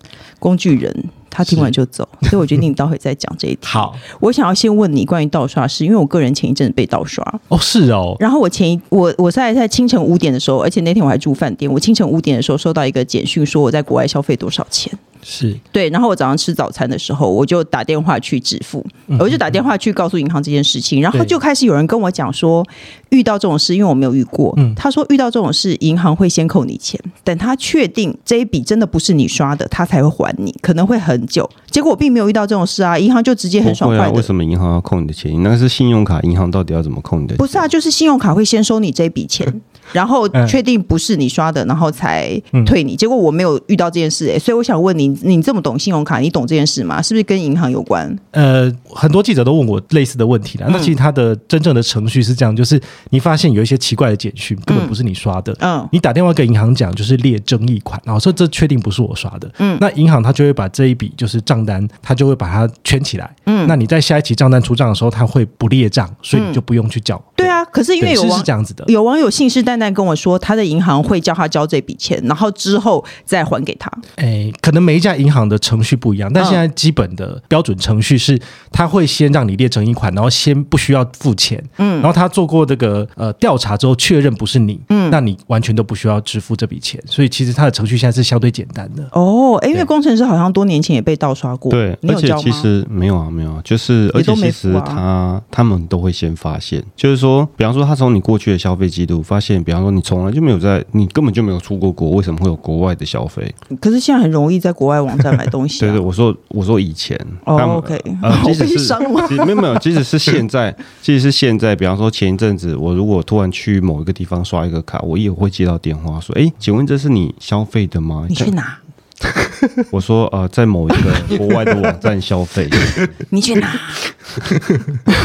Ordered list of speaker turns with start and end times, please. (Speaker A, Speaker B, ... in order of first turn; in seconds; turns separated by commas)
Speaker A: 0.4-7.4, Speaker B: 3.6-4.0, Speaker B: 7.5-8.2, Speaker A: 8.2-15.0, Speaker B: 15.3-15.6, Speaker A: 15.7-34.3, Speaker B: 19.1-19.4, Speaker C: 33.6-37.7, Speaker A: 37.4-48.2, Speaker B: 48.3-68.9, Speaker A: 54.7-55.0, Speaker A: 55.6-55.9, Speaker A: 59.6-59.8, Speaker A: 63.5-63.8, Speaker A: 66.3-66.6, Speaker A: 67.4-74.0, Speaker B: 74.2-89.1, Speaker A: 81.8-82.1, Speaker A: 84.9-85.2, Speaker A: 89.1-92.7, Speaker C: 91.7-103.6, Speaker A: 94.2-95.0, Speaker A: 103.8-106.0, Speaker C: 105.8-118.5, Speaker A: 107.5-109.8, Speaker A: 118.3-118.8, Speaker C: 119.9-123.1, Speaker A: 123.3-124.1, Speaker B: 124.5-125.0